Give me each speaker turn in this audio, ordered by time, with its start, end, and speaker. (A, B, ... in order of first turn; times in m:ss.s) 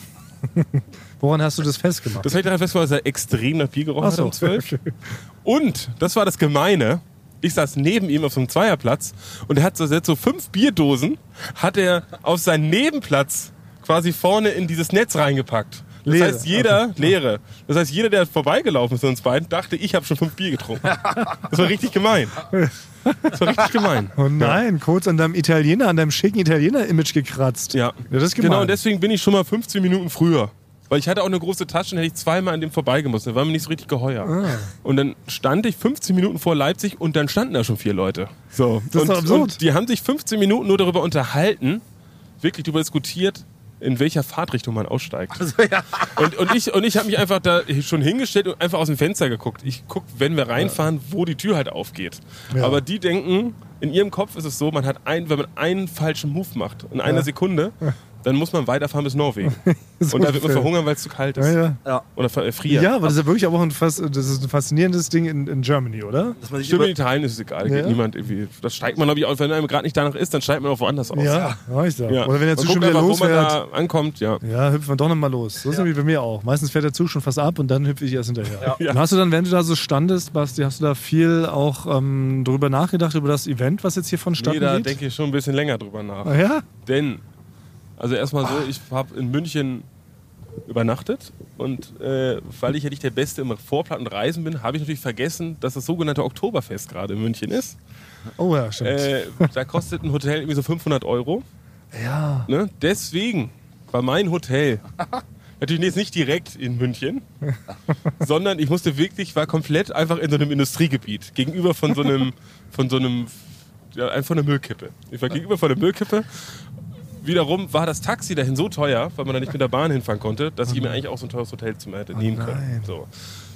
0:00.5-0:02.3 A
0:02.2-0:04.7 B
0:04.0-0:05.0 A
0:05.4-0:22.5 B
0:16.0-0:17.1 A
0:22.5-0:23.5 A
0:23.3-0:24.6 B
0:24.2-0:28.8 A
0:27.7-0:41.8 B
0:34.2-0:34.7 A
0:38.9-0:39.6 A
0:42.4-0:45.5 B
0:45.4-0:46.3 C
0:46.0-1:01.6 B
0:52.5-0:52.8 A
0:59.4-1:00.7 A
1:01.4-1:01.8 A
1:02.2-1:03.0 B
1:02.7-1:06.4 A
1:06.4-1:06.9 C
1:06.6-1:11.4 B
1:07.6-1:08.0 A
1:11.1-1:13.6 A
1:11.2-1:11.6 C
1:12.1-1:14.4 B
1:14.4-1:25.0 A
1:18.6-1:19.0 B
1:24.4-1:27.2 B
1:26.2-1:26.6 A
1:28.0-1:29.8 B
1:30.7-1:37.8 B
1:38.4-1:39.5 A
1:38.8-1:41.4 B
1:41.9-1:42.5 A
1:42.5-1:45.0 B
1:45.6-1:47.2 B
1:48.2-1:53.4 B
1:53.9-1:56.4 B
1:57.2-2:03.1 B
2:00.7-2:01.0 A
2:02.1-2:02.9 A